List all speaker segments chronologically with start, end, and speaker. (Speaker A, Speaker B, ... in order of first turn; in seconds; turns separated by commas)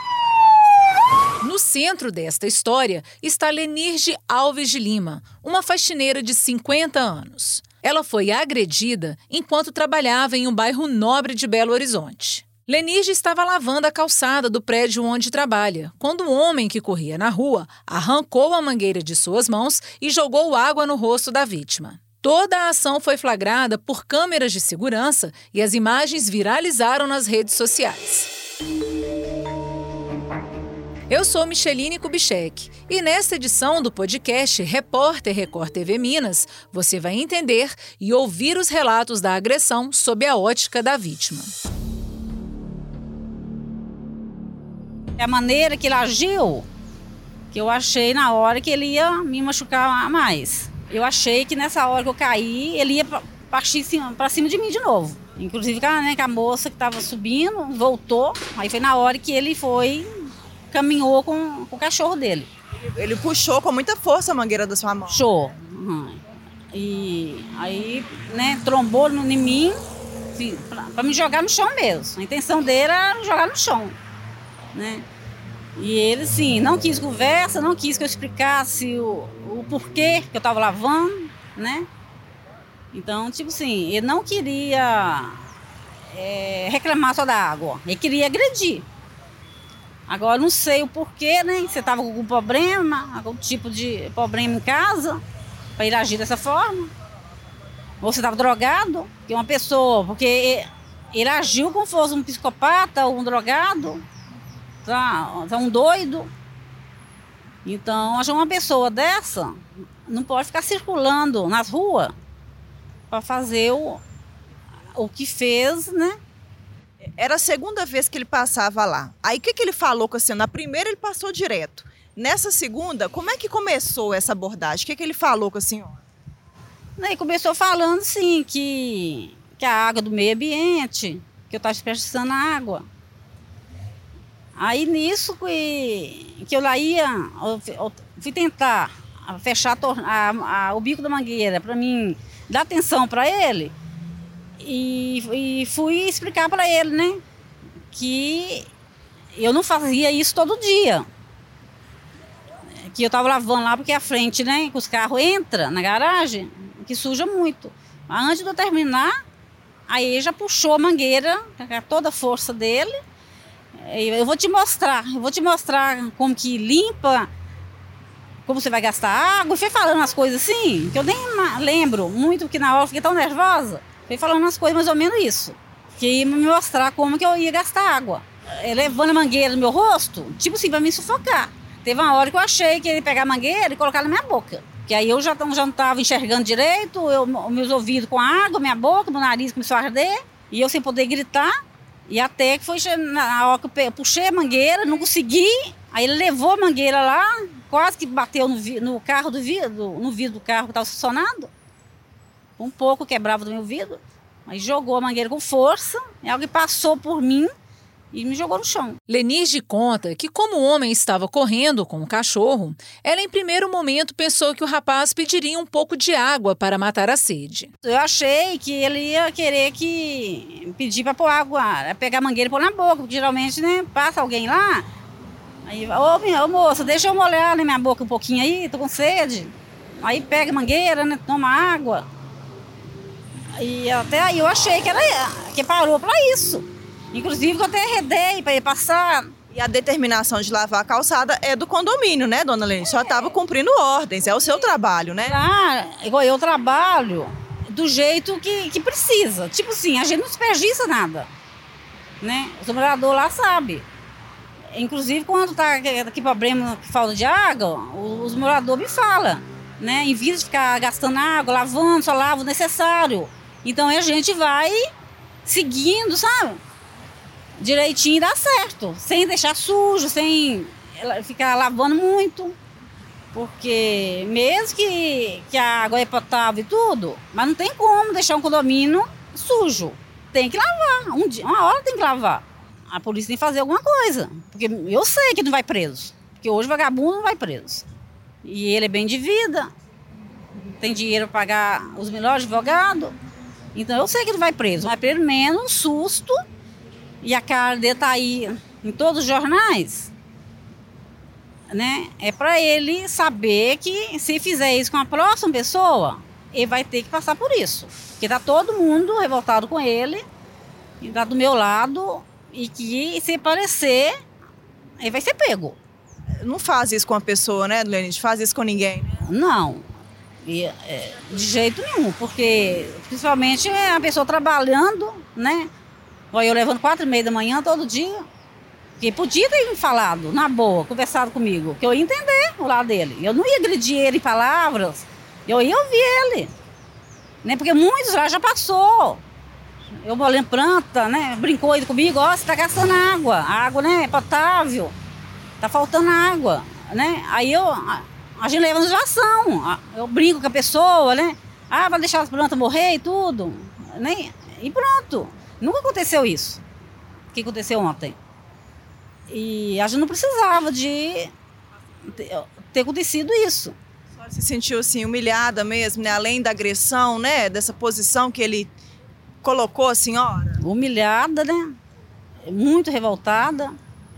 Speaker A: 1.4-28.3, Speaker A: 31.1-41.5, Speaker B: 45.2-46.7, Speaker B: 47.5-62.5, Speaker C: 63.0-65.2, Speaker B: 65.1-66.2, Speaker B: 66.7-69.8, Speaker B: 70.3-74.0, Speaker B: 74.7-75.0, Speaker B: 75.8-81.9, Speaker B: 82.9-85.5, Speaker B: 86.1-88.8, Speaker B: 90.1-95.2, Speaker B: 95.8-96.9, Speaker B: 98.0-104.0, Speaker B: 104.8-106.3, Speaker B: 107.6-112.1, Speaker B: 113.1-114.0, Speaker B: 114.9-116.2, Speaker C: 117.2-126.0, Speaker B: 127.0-132.8, Speaker B: 134.6-143.7, Speaker B: 144.6-147.2, Speaker B: 147.9-148.7, Speaker B: 149.3-151.1, Speaker B: 152.8-159.1, Speaker B: 159.9-162.9, Speaker B: 163.7-167.3, Speaker B: 168.4-191.5, Speaker B: 192.1-201.5, Speaker B: 202.6-207.5, Speaker B: 208.1-209.0, Speaker A: 209.1-217.7, Speaker B: 217.8-224.8, Speaker B: 225.6-232.1, Speaker B: 233.6-239.3, Speaker C: 239.5-245.4, Speaker B: 245.2-251.3, Speaker B: 252.2-253.8, Speaker B: 254.7-264.8, Speaker B: 265.4-266.6, Speaker B: 267.6-272.6, Speaker B: 273.3-287.9, Speaker B: 288.4-289.7, Speaker B: 290.7-293.1, Speaker B: 293.7-296.4, Speaker B: 297.2-300.1, Speaker B: 301.7-310.2, Speaker B: 311.0-314.1, Speaker B: 315.0-315.8, Speaker C: 316.4-319.1, Speaker B: 319.2-319.9, Speaker B: 320.4-325.7, Speaker B: 326.3-328.2, Speaker B: 329.0-336.5, Speaker B: 337.4-339.2, Speaker B: 339.9-344.9, Speaker B: 345.6-356.6, Speaker B: 357.3-358.1, Speaker B: 359.3-361.3, Speaker B: 362.0-363.8, Speaker C: 364.2-368.7, Speaker C: 369.4-370.6, Speaker B: 370.6-371.7, Speaker B: 372.4-373.7